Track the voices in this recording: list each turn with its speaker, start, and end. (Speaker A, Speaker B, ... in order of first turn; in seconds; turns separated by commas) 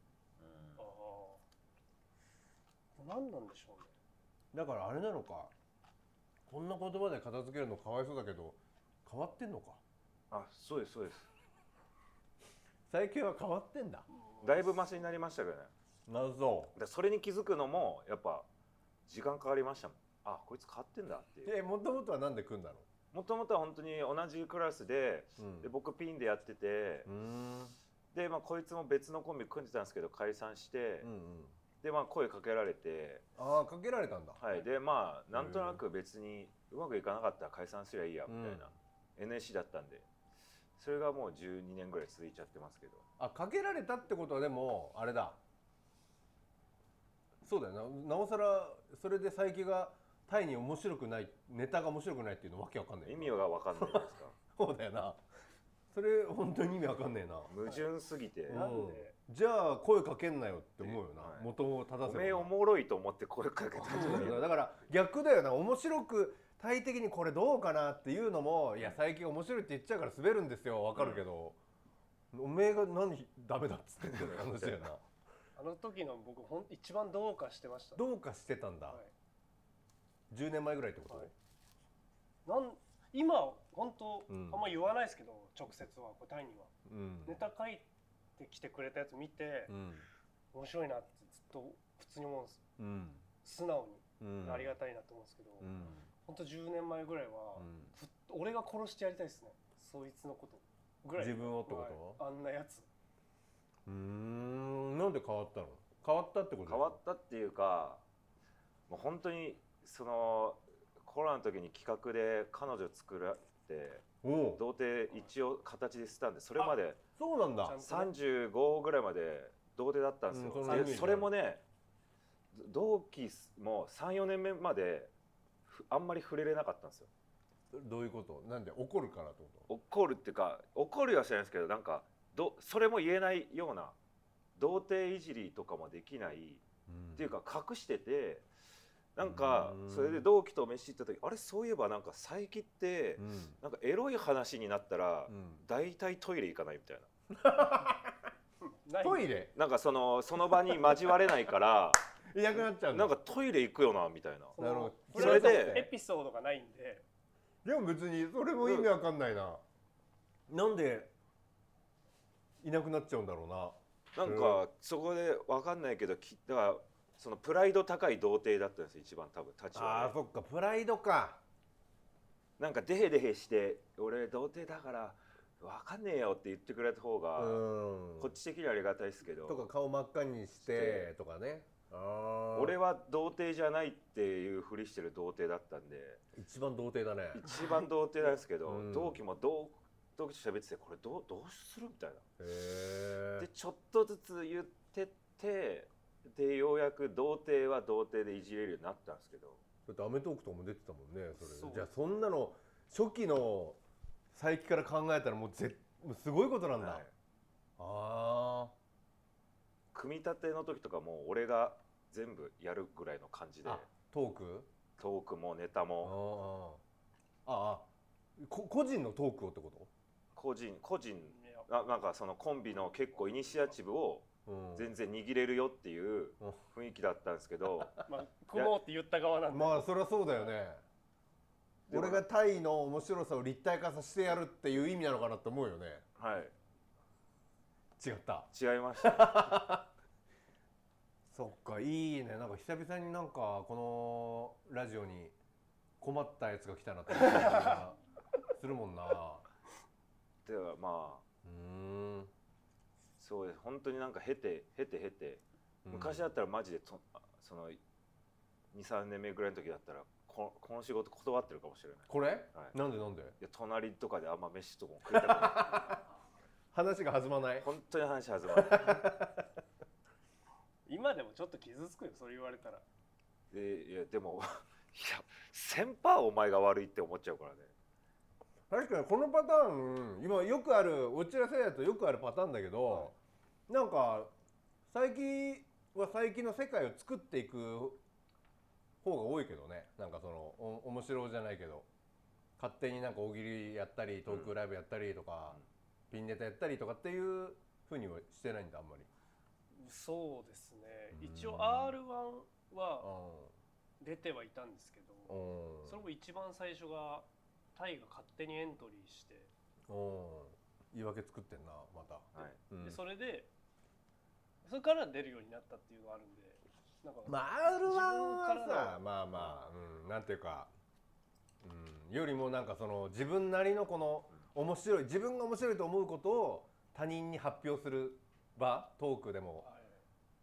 Speaker A: 0.4-0.8, Speaker B: 0.8-1.4, Speaker B: 3.0-3.9, Speaker C: 4.5-5.5, Speaker C: 6.5-9.8, Speaker A: 10.3-11.3, Speaker C: 12.9-14.1, Speaker B: 14.2-14.7, Speaker A: 14.4-15.7, Speaker C: 16.1-16.7, Speaker A: 16.8-18.5, Speaker A: 19.1-21.5, Speaker C: 21.5-22.9, Speaker A: 23.1-27.1, Speaker C: 25.4-25.7, Speaker C: 27.1-27.8, Speaker A: 28.1-31.1, Speaker C: 31.0-31.6, Speaker A: 31.8-33.2, Speaker C: 33.4-34.4, Speaker A: 34.4-40.1, Speaker C: 35.3-35.8, Speaker C: 38.3-38.8, Speaker A: 40.8-43.0, Speaker C: 43.2-45.4, Speaker C: 47.4-55.2, Speaker A: 53.1-54.4, Speaker C: 55.9-57.5, Speaker A: 57.5-58.7, Speaker C: 58.5-62.5, Speaker B: 58.5-59.1, Speaker A: 60.8-61.5, Speaker A: 62.0-64.5, Speaker C: 63.8-71.6, Speaker A: 71.0-71.2, Speaker C: 72.3-75.0, Speaker B: 75.6-78.0, Speaker C: 78.0-79.0, Speaker C: 80.3-81.3, Speaker B: 82.5-86.7, Speaker C: 84.3-84.6, Speaker C: 86.9-87.4, Speaker B: 87.3-87.9, Speaker B: 88.4-89.7, Speaker C: 89.7-90.1, Speaker B: 90.5-92.6, Speaker C: 92.8-93.2, Speaker B: 93.4-102.9, Speaker C: 94.2-94.8, Speaker C: 95.6-96.1, Speaker C: 97.6-97.9, Speaker C: 101.2-102.2, Speaker C: 103.9-107.0, Speaker A: 106.7-108.0, Speaker A: 108.9-117.0, Speaker C: 114.2-114.6, Speaker C: 117.2-117.8, Speaker B: 117.6-118.1, Speaker A: 117.8-121.6, Speaker C: 120.3-121.3, Speaker B: 120.7-121.1, Speaker A: 122.5-125.1, Speaker A: 125.7-127.1, Speaker C: 127.7-129.7, Speaker A: 129.7-133.9, Speaker A: 134.6-136.6, Speaker C: 136.9-137.3, Speaker A: 137.2-138.5, Speaker A: 139.2-147.1, Speaker C: 139.2-140.3, Speaker C: 143.2-143.6, Speaker C: 145.3-145.7, Speaker C: 147.3-148.2, Speaker B: 148.6-149.3, Speaker C: 149.0-149.5, Speaker A: 149.6-152.0, Speaker C: 152.3-153.1, Speaker A: 152.8-154.6, Speaker B: 154.6-157.0, Speaker C: 154.6-155.9, Speaker A: 155.1-155.8, Speaker C: 157.7-159.6, Speaker A: 158.6-158.9, Speaker C: 160.5-161.1, Speaker C: 162.6-164.6, Speaker A: 164.2-170.2, Speaker C: 169.7-171.4, Speaker A: 172.6-177.6, Speaker C: 177.4-178.3, Speaker A: 178.2-179.7, Speaker C: 179.5-182.8, Speaker A: 180.6-181.1, Speaker A: 182.5-186.2, Speaker C: 186.3-187.4, Speaker A: 187.3-192.2, Speaker C: 188.7-189.2, Speaker C: 192.4-193.5, Speaker A: 193.4-199.6, Speaker C: 199.9-203.8, Speaker B: 201.4-201.9, Speaker C: 204.3-207.0, Speaker A: 206.8-207.1, Speaker C: 207.8-208.7, Speaker A: 209.9-213.9, Speaker C: 213.7-214.7, Speaker A: 215.0-216.2, Speaker C: 216.0-216.8, Speaker C: 217.5-217.9, Speaker C: 218.4-219.9, Speaker A: 220.3-227.9, Speaker B: 221.3-221.7, Speaker C: 224.5-224.9, Speaker B: 228.1-229.9, Speaker C: 229.5-230.8, Speaker A: 231.9-232.2, Speaker C: 231.9-236.0, Speaker A: 236.2-236.5, Speaker C: 238.0-239.9, Speaker A: 238.5-239.5, Speaker C: 241.3-245.3, Speaker C: 246.0-248.0, Speaker C: 248.5-249.4, Speaker A: 250.4-251.2, Speaker C: 251.4-252.3, Speaker A: 253.2-257.8, Speaker C: 255.8-256.3, Speaker A: 258.7-262.8, Speaker C: 262.1-263.4, Speaker A: 263.4-265.9, Speaker C: 265.1-266.0, Speaker C: 266.7-267.7, Speaker A: 267.6-269.1, Speaker C: 268.5-269.5, Speaker B: 270.9-272.8, Speaker A: 273.5-277.7, Speaker C: 278.7-283.1, Speaker C: 283.7-284.3, Speaker C: 284.9-288.0, Speaker C: 289.0-291.9, Speaker C: 292.6-295.6, Speaker A: 294.3-294.5, Speaker C: 296.1-299.1, Speaker B: 299.8-303.1, Speaker C: 301.1-302.0, Speaker C: 303.0-303.5, Speaker B: 304.0-309.5, Speaker C: 305.3-306.0, Speaker C: 309.9-313.0, Speaker A: 312.3-312.6, Speaker B: 312.8-313.5, Speaker B: 314.6-319.0, Speaker C: 317.3-320.7, Speaker C: 321.6-329.7, Speaker B: 329.6-330.0